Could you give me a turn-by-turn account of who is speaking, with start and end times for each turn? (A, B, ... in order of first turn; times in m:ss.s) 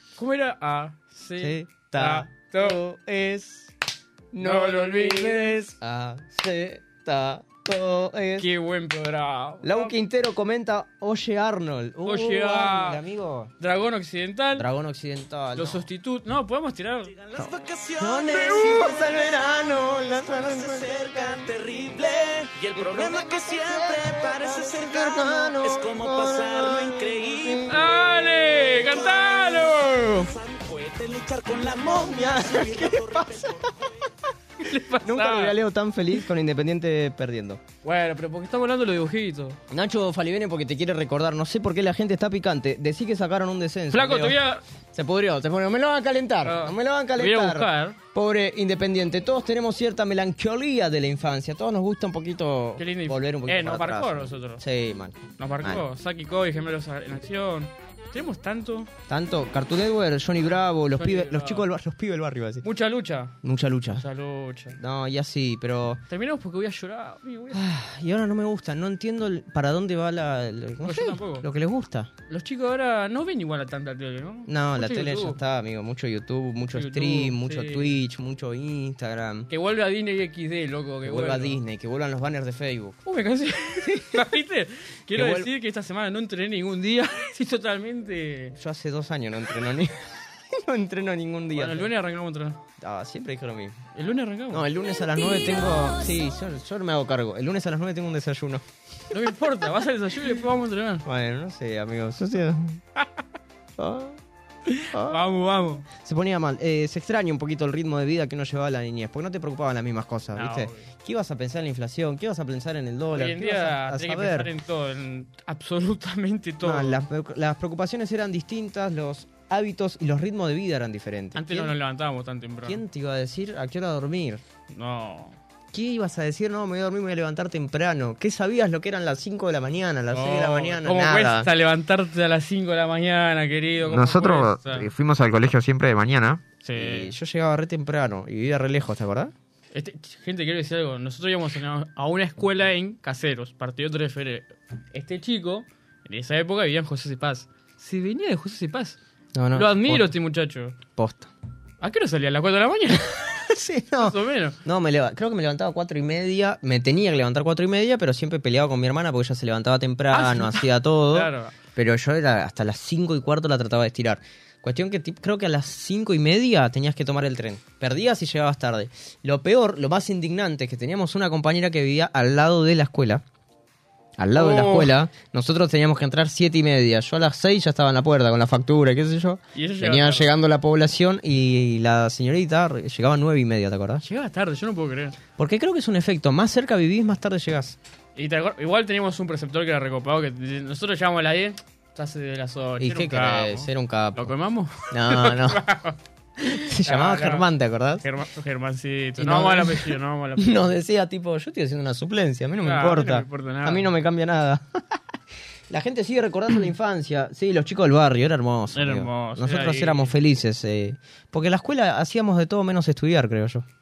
0:00.2-0:02.8 A
0:01.4-0:03.7 B
0:04.3-0:08.5 B
0:04.4-0:05.6 A
0:08.4-0:09.9 A
0:09.6-0:13.5 B
0:12.0-0:13.0 A
0:13.6-0:14.7 A
0:14.6-0:15.8 B
0:15.6-0:17.1 A
0:17.2-0:27.8 C
0:17.4-0:21.5 B
0:22.3-0:27.8 B
0:27.7-0:30.3 A
0:28.9-0:33.8 C
0:31.9-0:33.4 B
0:34.6-0:35.5 A
0:35.0-0:37.6 B
0:37.8-0:39.6 A
0:39.7-0:44.4 B
0:43.9-0:44.6 A
0:44.9-0:55.8 B
0:46.4-0:48.0 A
0:52.8-0:54.6 A
0:55.4-0:58.9 A
0:59.1-1:02.6 B
1:01.0-1:01.6 A
1:02.6-1:03.4 A
1:03.4-1:04.0 B
1:04.0-1:04.8 A
1:04.8-1:06.0 B
1:06.1-1:07.6 A
1:07.5-1:12.1 B
1:10.8-1:11.4 A
1:12.3-1:15.4 A
1:14.5-1:19.5 B
1:16.7-1:17.9 A
1:19.5-1:21.6 A
1:21.0-1:23.0 B
1:23.0-1:28.6 A
1:23.8-1:24.2 B
1:25.1-1:25.5 B
1:28.6-1:29.9 B
1:30.5-1:31.9 B
1:31.5-1:32.6 A
1:32.8-1:33.8 B
1:33.9-1:34.6 A
1:34.5-1:38.6 B
1:39.1-1:41.0 A
1:41.0-1:42.8 B
1:43.8-1:44.2 B
1:44.7-1:45.8 A
1:44.9-1:45.2 B
1:45.9-1:54.5 B
1:50.3-1:50.9 A
1:53.1-1:57.0 A
1:56.6-2:01.7 B
2:01.3-2:02.8 A
2:02.6-2:04.4 B
2:04.7-2:05.4 A
2:05.7-2:11.5 B
2:10.1-2:14.9 A
2:13.8-2:19.3 B
2:16.6-2:17.1 A
2:19.7-2:29.0 A
2:29.3-2:30.1 B
2:29.5-2:30.8 A
2:31.0-2:31.3 B
2:31.8-2:33.4 A
2:33.5-2:53.2 B
2:34.0-2:34.6 A
2:40.1-2:41.5 A
2:54.2-3:04.0 B
2:54.3-2:54.9 A
2:59.5-3:00.3 A
3:04.0-3:05.2 A
3:05.4-3:07.8 B
3:08.2-3:17.4 A
3:12.8-3:14.3 B
3:14.9-3:15.6 B
3:16.6-3:18.0 B
3:18.0-3:20.6 A
3:19.2-3:24.8 B
3:22.6-3:23.9 A
3:25.7-3:33.6 B
3:28.7-3:30.1 A